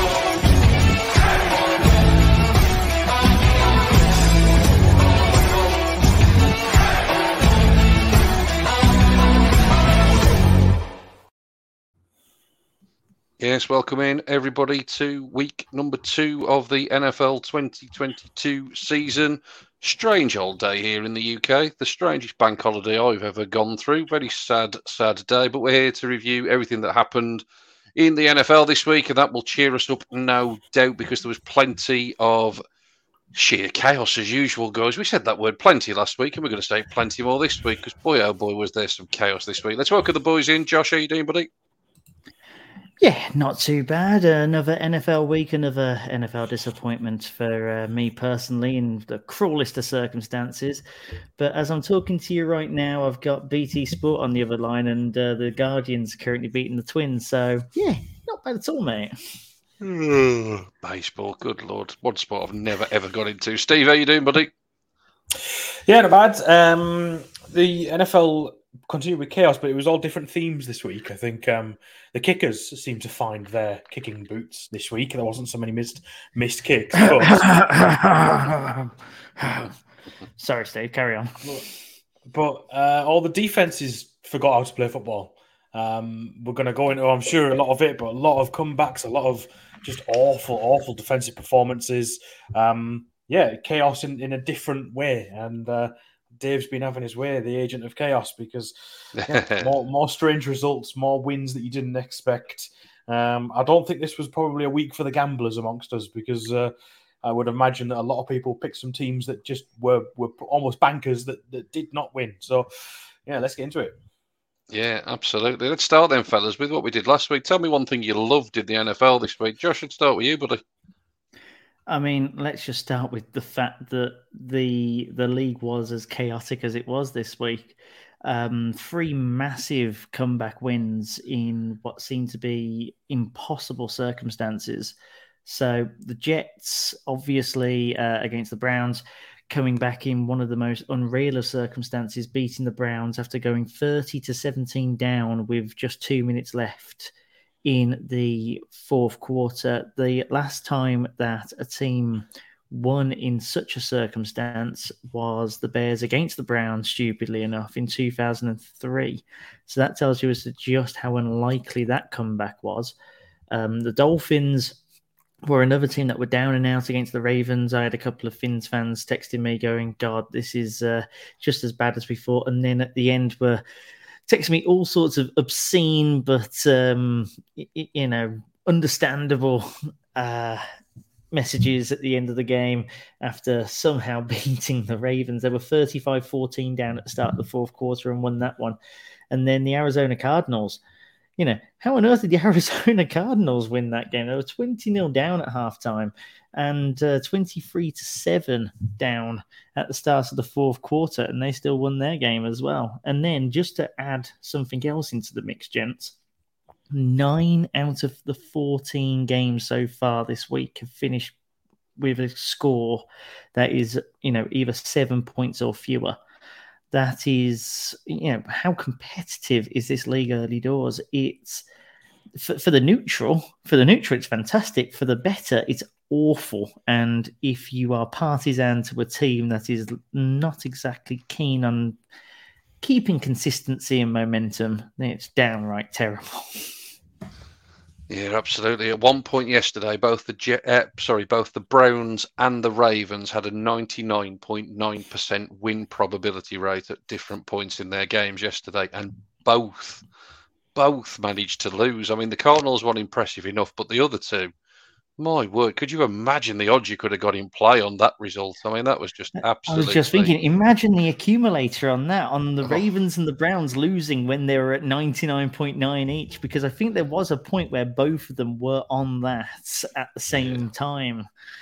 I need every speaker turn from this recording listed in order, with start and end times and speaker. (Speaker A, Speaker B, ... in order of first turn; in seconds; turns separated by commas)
Speaker A: 13.4-27.4, Speaker A: 28.0-32.6, Speaker A: 33.3-41.5, Speaker B: 43.0-50.8, Speaker B: 51.4-59.1, Speaker A: 59.8-64.5, Speaker C: 65.4-77.5, Speaker B: 77.0-79.7, Speaker B: 80.4-81.5, Speaker C: 82.3-112.7, Speaker A: 99.2-99.7, Speaker C: 113.3-114.0, Speaker A: 114.7-120.6, Speaker B: 121.9-147.1, Speaker B: 147.7-162.9, Speaker B: 163.5-164.8, Speaker B: 165.4-173.6, Speaker B: 174.3-180.7, Speaker B: 181.3-188.8, Speaker B: 189.3-190.8, Speaker B: 191.4-206.2, Speaker B: 206.9-211.3, Speaker B: 212.0-216.2, Speaker B: 216.9-221.6, Speaker B: 222.4-232.0, Speaker B: 232.8-236.7, Speaker A: 238.1-250.0, Speaker A: 250.8-254.5, Speaker A: 255.2-260.3, Speaker B: 259.7-271.3